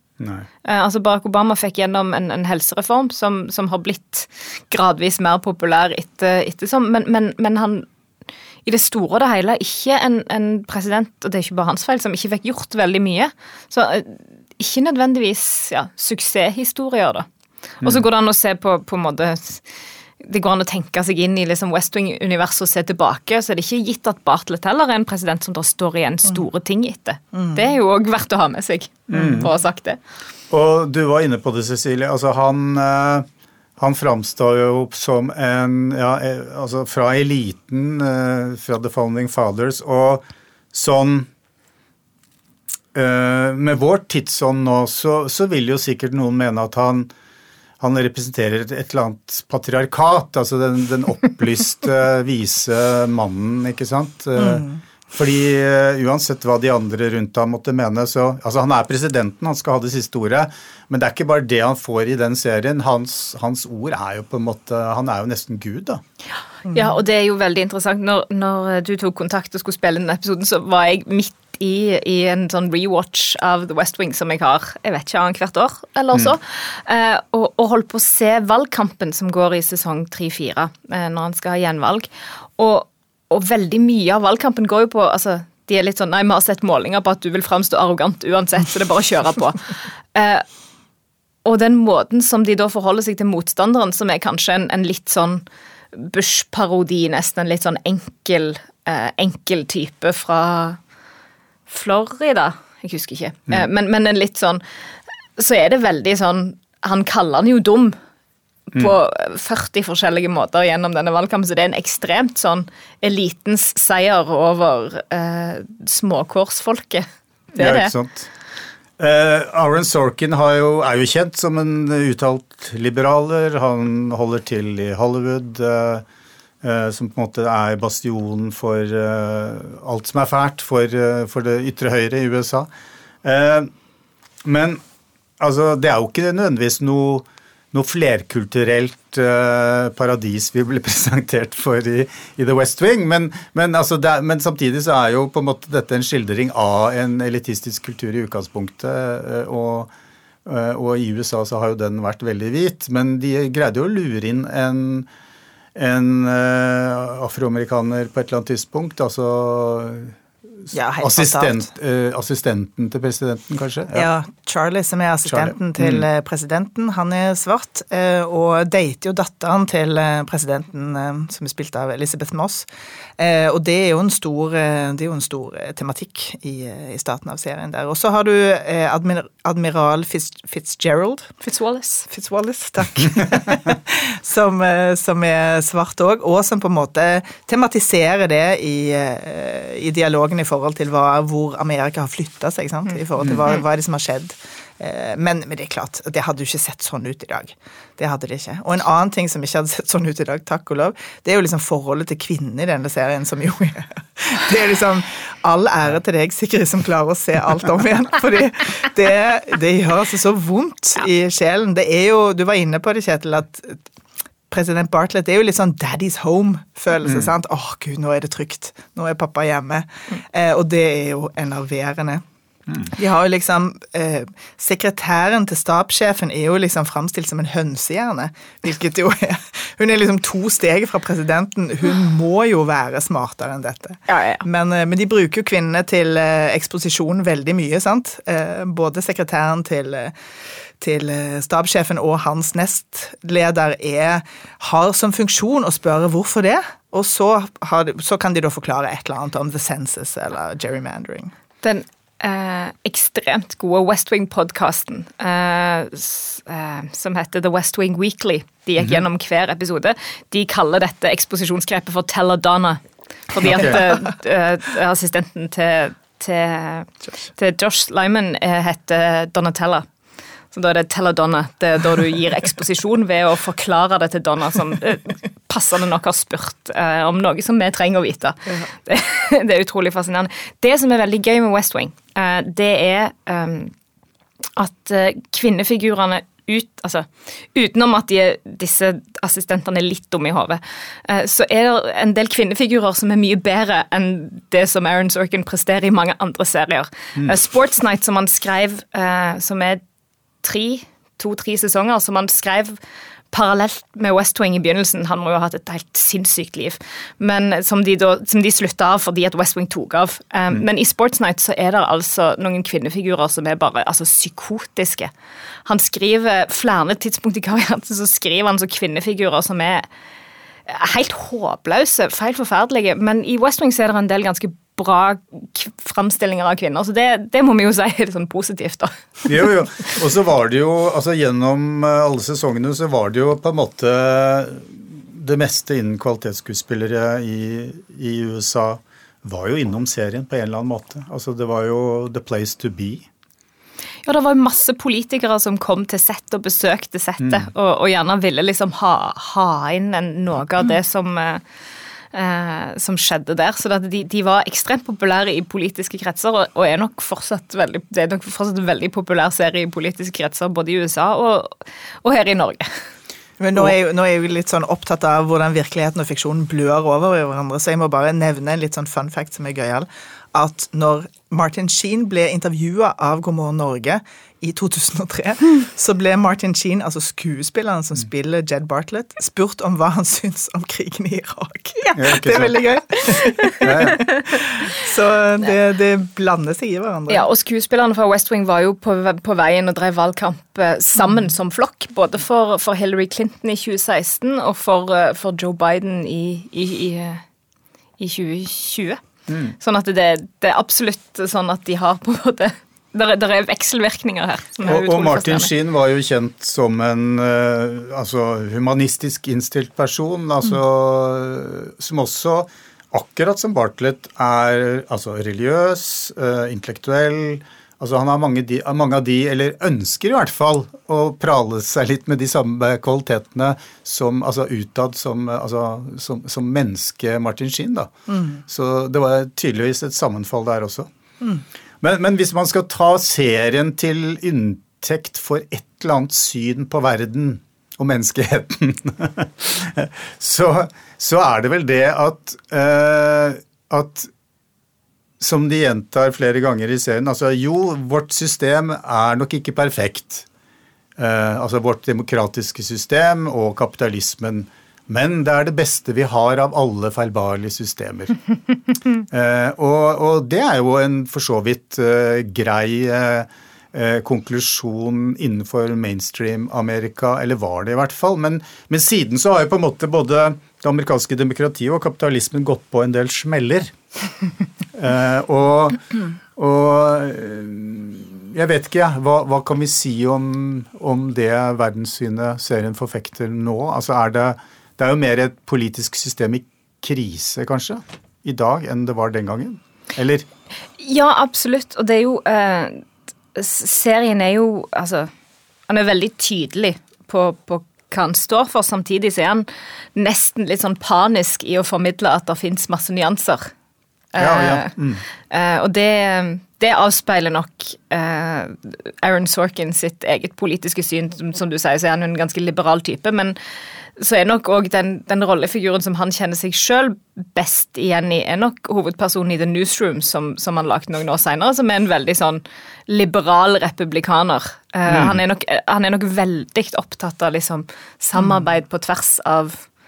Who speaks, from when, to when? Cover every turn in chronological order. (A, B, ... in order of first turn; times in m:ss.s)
0:00.2-0:00.5 A
0:00.6-0:07.9 B
0:08.6-0:17.3 B
0:17.8-0:19.6 B
0:20.2-0:30.0 B
0:29.1-0:29.5 A
0:30.5-0:33.3 A
0:33.8-0:41.3 A
0:42.9-0:47.1 A
0:47.8-1:06.0 A
0:54.4-0:54.8 C
1:06.7-1:30.4 B
1:31.4-1:40.8 B
1:41.7-1:44.6 B
1:45.4-1:48.0 B
1:48.7-1:57.9 B
1:57.6-1:58.3 A
1:59.0-2:06.0 A
2:06.6-2:12.7 A
2:13.2-2:13.7 A
2:14.4-2:14.8 A
2:15.4-2:29.9 A
2:30.4-2:35.1 A
2:35.7-2:44.1 A
2:40.7-2:41.6 C
2:43.9-2:52.6 C
2:45.2-2:46.1 A
2:53.2-3:01.3 C
3:01.4-3:02.1 B
3:02.1-3:33.8 C
3:34.5-3:42.2 C
3:37.0-3:37.3 A
3:42.8-4:00.1 C
3:54.1-3:54.4 B
4:00.8-4:11.3 C
4:11.6-4:29.8 B
4:23.4-4:23.8 A
4:30.5-4:43.7 B
4:44.6-4:59.8 B
5:00.4-5:02.8 B
5:03.3-5:15.1 B
5:15.6-5:19.8 B
5:20.7-5:29.3 B
5:29.2-5:43.1 A
5:44.0-5:51.4 B
5:47.2-5:47.5 A
5:52.1-6:02.7 B
6:03.4-6:27.2 C
6:21.9-6:22.6 A
6:23.6-6:24.0 B
6:23.6-6:24.0 A
6:27.1-6:37.2 B
6:38.0-6:39.0 B
6:39.3-6:39.5 A
6:39.5-6:45.5 B
6:44.6-7:10.9 A
7:08.1-7:08.4 C
7:11.8-7:24.1 A
7:25.2-7:30.2 A
7:31.0-7:38.1 A
7:39.1-7:53.7 A
7:54.7-7:55.8 A
7:56.4-8:10.2 A
8:10.8-8:15.1 B
8:15.7-8:23.5 B
8:24.1-8:24.7 B
8:24.2-8:25.0 A
8:25.3-8:33.4 B
8:34.0-8:49.6 B
8:44.9-8:45.2 A